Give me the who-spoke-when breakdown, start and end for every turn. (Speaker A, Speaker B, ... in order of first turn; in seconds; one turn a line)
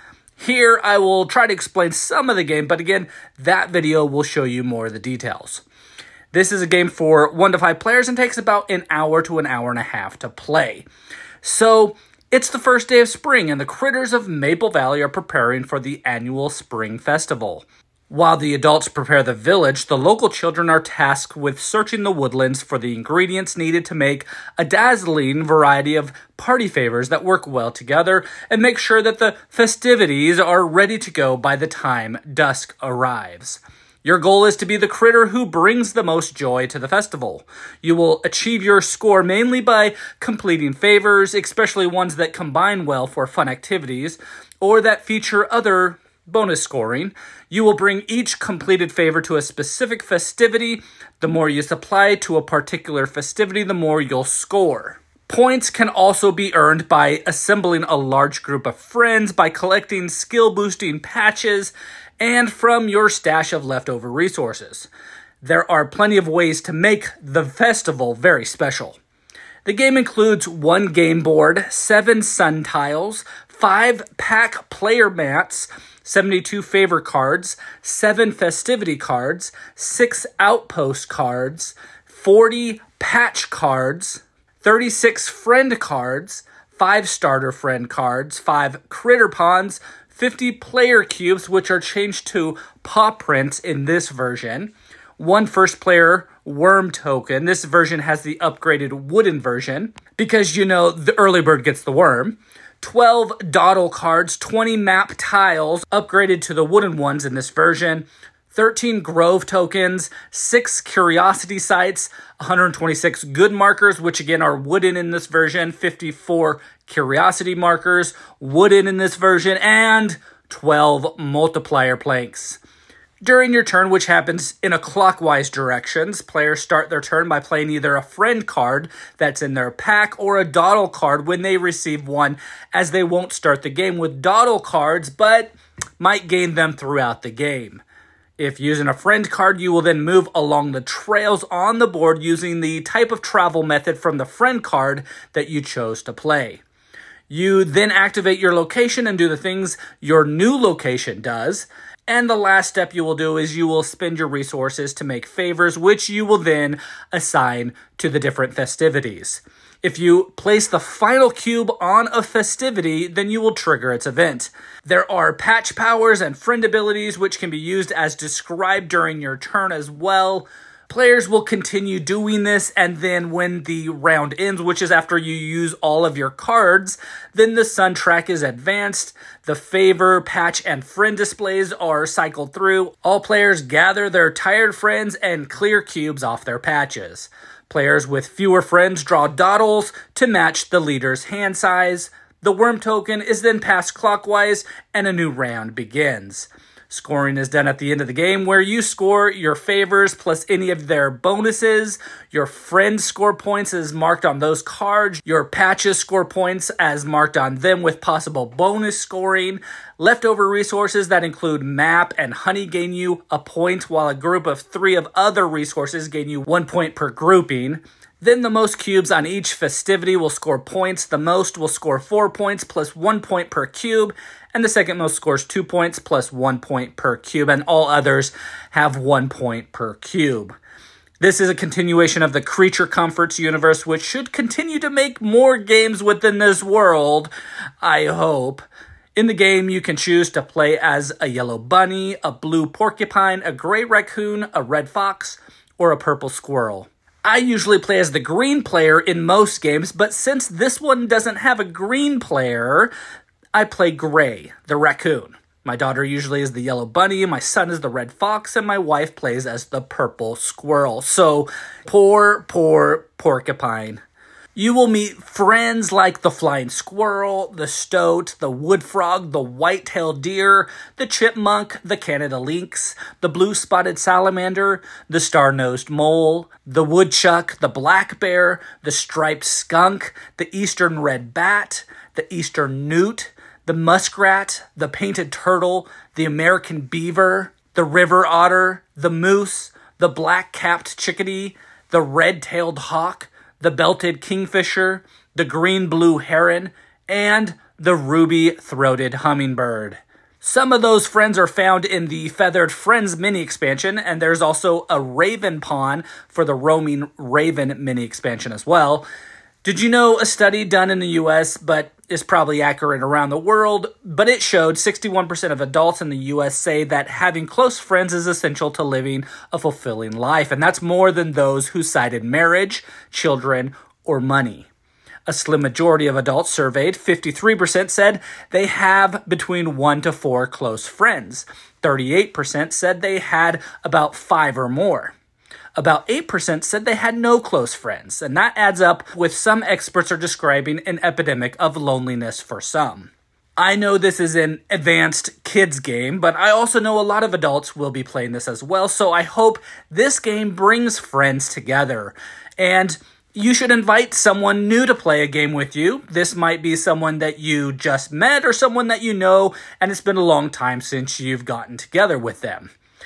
Speaker A: 0.4-5.6
Speaker A: 6.3-10.9
Speaker A: 11.4-64.9
Speaker A: 65.4-69.0
Speaker A: 69.6-122.6
Speaker A: 123.2-137.8
Speaker A: 138.4-146.6
Speaker A: 147.3-230.5
Speaker A: 231.2-237.3
Speaker A: 237.8-238.6
Speaker A: 239.2-252.9
Speaker A: 253.5-264.0
Speaker A: 264.5-309.1
Speaker A: 309.6-324.7
Speaker A: 325.3-335.1
Speaker A: 335.8-362.7